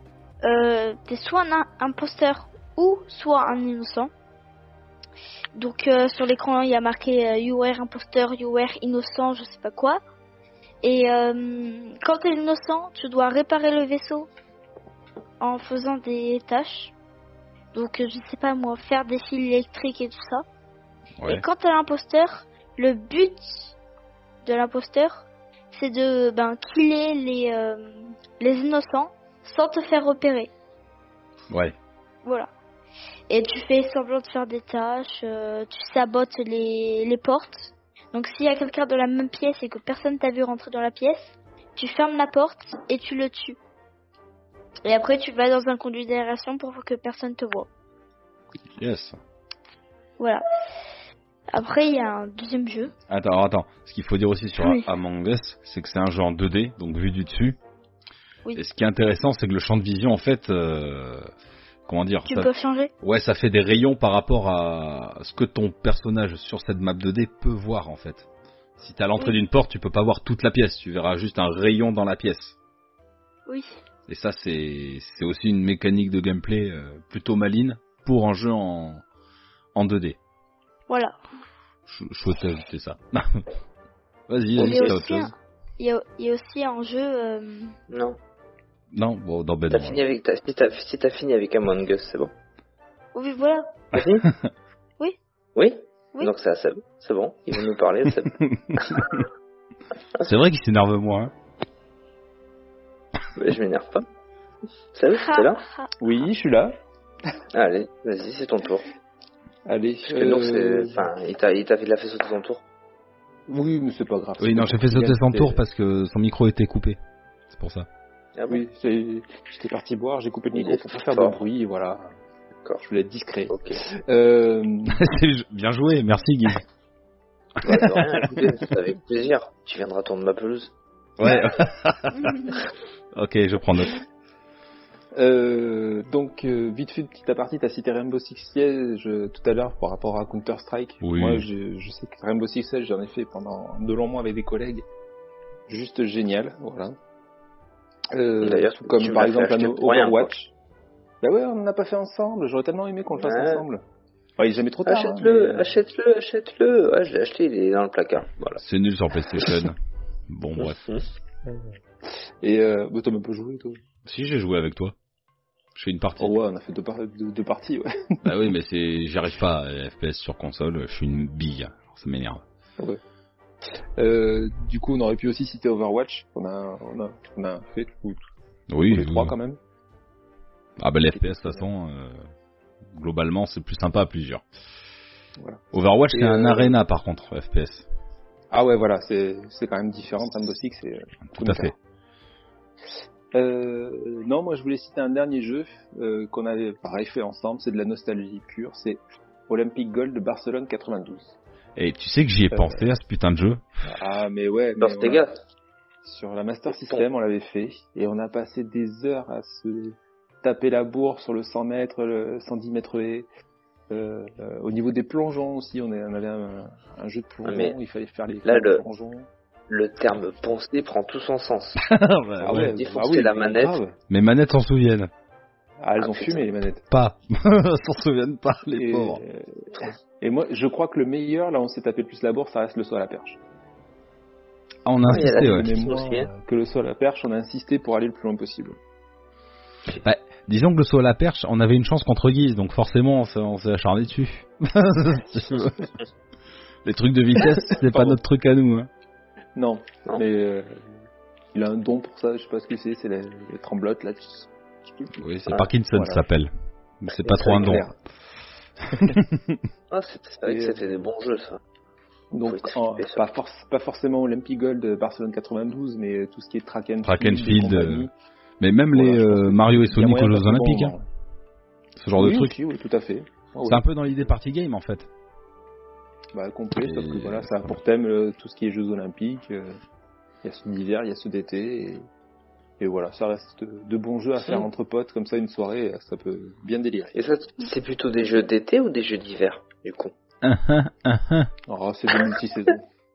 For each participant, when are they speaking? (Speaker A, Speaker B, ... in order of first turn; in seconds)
Speaker A: 0.4-4.1, 5.5-10.0, 10.8-14.3, 15.4-16.9, 17.7-20.4, 21.3-23.7, 24.4-30.5, 32.2-32.5, 33.3-43.6, 44.9-47.7, 50.2-50.4, 51.5-52.9, 62.3-62.9, 73.5-73.8, 80.9-81.2, 84.6-87.8, 93.2-93.8, 105.2-105.9, 132.2-132.5
Speaker B: 21.2-21.4, 31.5-31.8, 48.8-49.2, 53.1-57.6, 58.6-61.3, 61.9-62.5, 63.0-68.3, 68.8-72.6, 74.1-79.0, 79.8-80.2, 81.9-83.5, 84.3-85.3, 88.9-90.0, 94.0-94.5, 100.2-101.3, 114.4-117.0, 117.5-117.9, 124.9-126.6, 127.7-128.5, 131.2-132.6, 133.1-134.0, 141.0-141.5, 158.6-159.8, 160.3-160.8, 164.1-164.9, 165.8-166.3, 168.2-172.4, 178.7-179.3, 180.8-182.3, 182.9-184.4, 185.7-187.9, 191.3-191.7, 201.8-203.6, 221.8-222.7, 224.1-225.1, 226.9-229.2, 234.9-235.7, 240.0-245.9, 246.8-248.9, 255.2-256.5, 257.0-257.9, 259.0-259.6, 267.0-268.1, 268.6-270.9, 272.0-272.6, 273.6-275.1, 276.8-277.8, 290.4-291.5
Speaker C: 84.6-84.9, 87.9-88.2, 89.7-92.3, 93.9-94.3, 95.5-99.2, 103.4-104.0, 104.9-105.6, 107.5-108.9, 110.1-112.6, 118.3-118.6, 120.5-121.4, 123.5-123.8, 127.6-130.7, 148.4-150.3, 153.2-153.7, 154.9-158.6, 160.6-161.1, 204.8-205.3, 206.7-207.0, 217.4-217.8, 218.4-218.8, 219.7-221.8, 222.5-223.8, 226.0-226.5, 235.1-236.3, 257.4-257.8, 259.9-261.6, 262.5-263.2, 287.1-290.1
Speaker D: 106.0-106.8, 109.7-111.1, 113.5-115.6, 118.5-122.1, 122.8-125.0, 135.1-144.8, 145.7-147.0, 148.1-150.5, 151.2-153.8, 154.4-155.7, 161.5-163.8, 166.2-168.2, 174.0-178.2, 178.9-179.6, 181.1-181.7, 186.1-186.8, 188.5-191.8, 193.3-201.3, 202.5-202.9, 203.8-205.2, 206.0-213.3, 213.9-219.3, 222.4-224.0, 225.8-226.8, 228.7-233.4, 235.1-238.8, 247.7-248.2, 249.6-255.2, 255.9-256.2, 257.2-257.9, 260.4-261.0, 262.3-268.1, 268.9-271.1, 272.2-273.9, 276.3-279.8, 280.4-282.1, 282.8-287.2, 291.7-292.9